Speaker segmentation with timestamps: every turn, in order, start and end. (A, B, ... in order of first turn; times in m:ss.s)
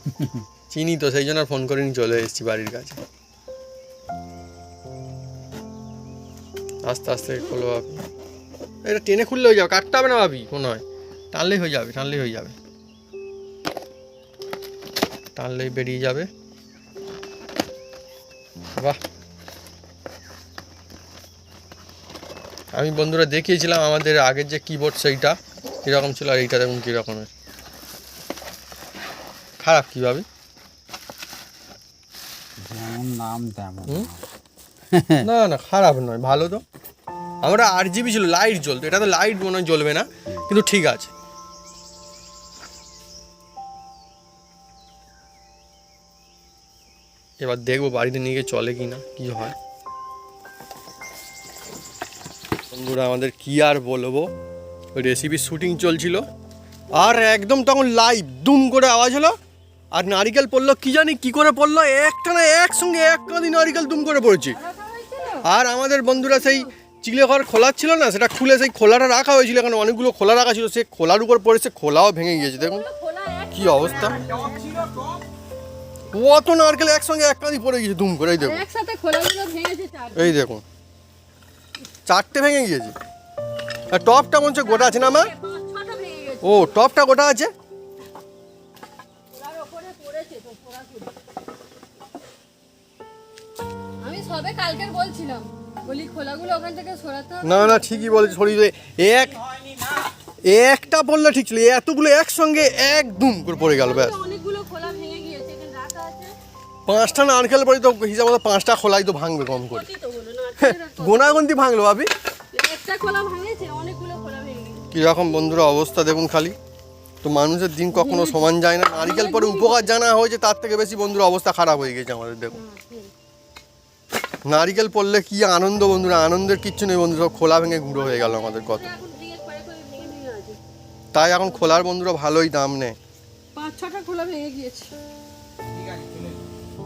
0:00.7-0:03.0 A
0:06.8-0:08.0 A
0:08.8-0:12.5 A
0:15.4-0:16.3 A
0:22.7-0:27.3 A
0:29.6-0:30.2 A
0:32.6-0:34.2 B
0:34.9-0:35.2 B
0:35.2-0:36.6 A
0:37.4-0:41.1 A
0:47.4-0:49.5 A
0:52.7-0:54.3 A
0:54.9-0:56.2 A
0:56.9-0:59.3 A
0:59.9-1:04.6 A
1:04.4-1:05.5 C
1:05.4-1:12.8 A
1:06.1-1:06.7 C
1:12.3-1:14.8 C
1:13.5-1:14.2 A
1:13.7-1:15.2 B
1:16.1-1:18.6 A
1:18.4-1:20.4 C
1:20.1-1:20.6 A
1:22.0-1:22.9 A
1:23.9-1:25.3 A
1:24.6-1:26.8 C
1:26.4-1:27.5 A
1:29.3-1:31.1 C
1:34.0-1:38.6 C
1:37.4-1:39.4 A
1:39.1-1:40.1 B
1:40.4-1:44.1 A
1:43.6-1:46.3 C
1:46.8-1:49.9 A
1:49.5-1:51.4 C
1:50.6-1:52.1 A
1:52.5-1:54.9 C
1:54.9-1:56.5 A
1:57.2-2:02.6 A
1:57.9-1:59.9 C
2:02.5-2:03.1 C
2:04.4-2:08.9 A
2:07.9-2:10.6 C
2:11.1-2:13.0 A
2:11.3-2:11.8 C
2:13.5-2:14.9 C
2:15.6-2:16.5 B